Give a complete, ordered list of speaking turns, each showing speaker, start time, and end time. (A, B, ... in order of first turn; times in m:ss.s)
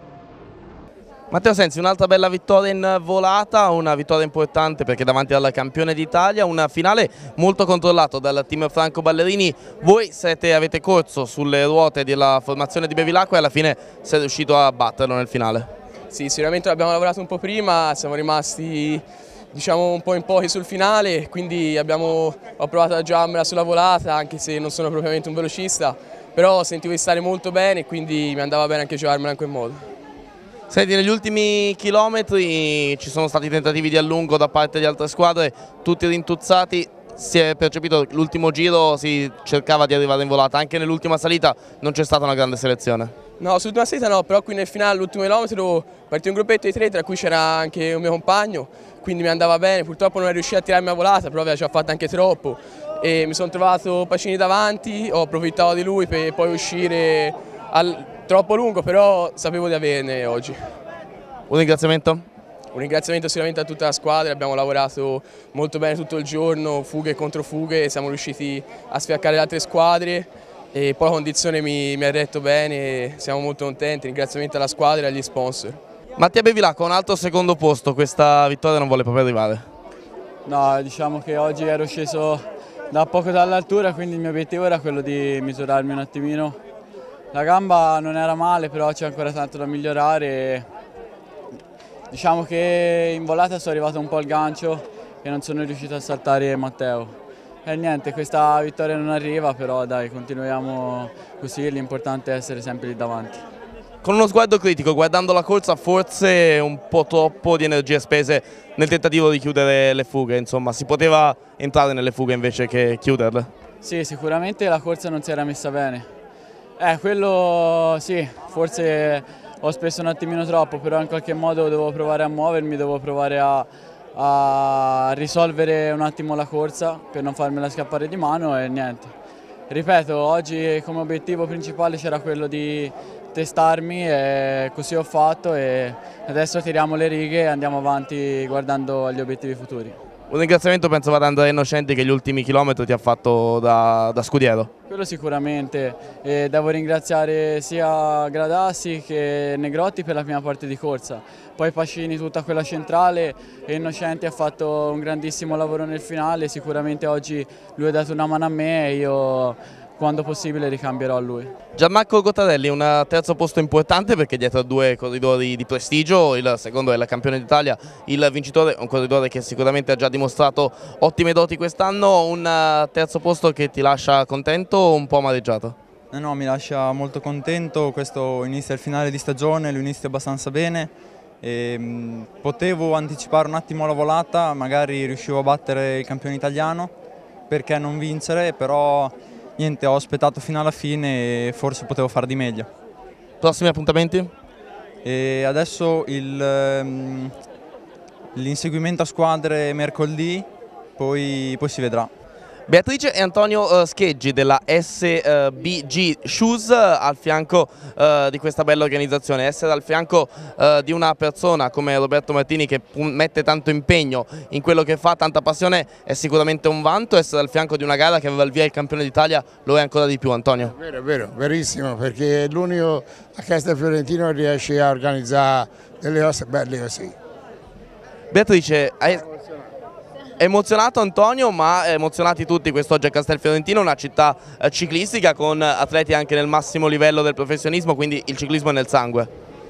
0:01.3-0:15.7 A
0:16.1-0:29.8 B
0:30.7-0:43.1 A
0:43.4-1:00.8 B
1:01.5-1:02.3 A
1:02.7-1:15.8 B
1:16.2-1:19.6 A
1:20.4-1:26.6 C
1:27.3-1:30.7 C
1:32.1-1:43.4 C
1:44.0-1:53.5 A
1:53.8-1:56.1 C
1:56.8-2:09.1 C
2:09.7-2:20.0 C
2:20.3-2:24.7 A
2:24.9-2:41.5 C
2:41.8-2:55.8 A
2:56.1-3:06.9 D
3:07.5-3:12.7 D
3:13.4-3:14.3 A
3:15.0-3:17.4 D
3:18.3-3:22.1 D
3:22.7-3:40.7 A
3:40.6-3:47.1 E
3:48.3-3:49.2 A
3:50.4-3:59.3 A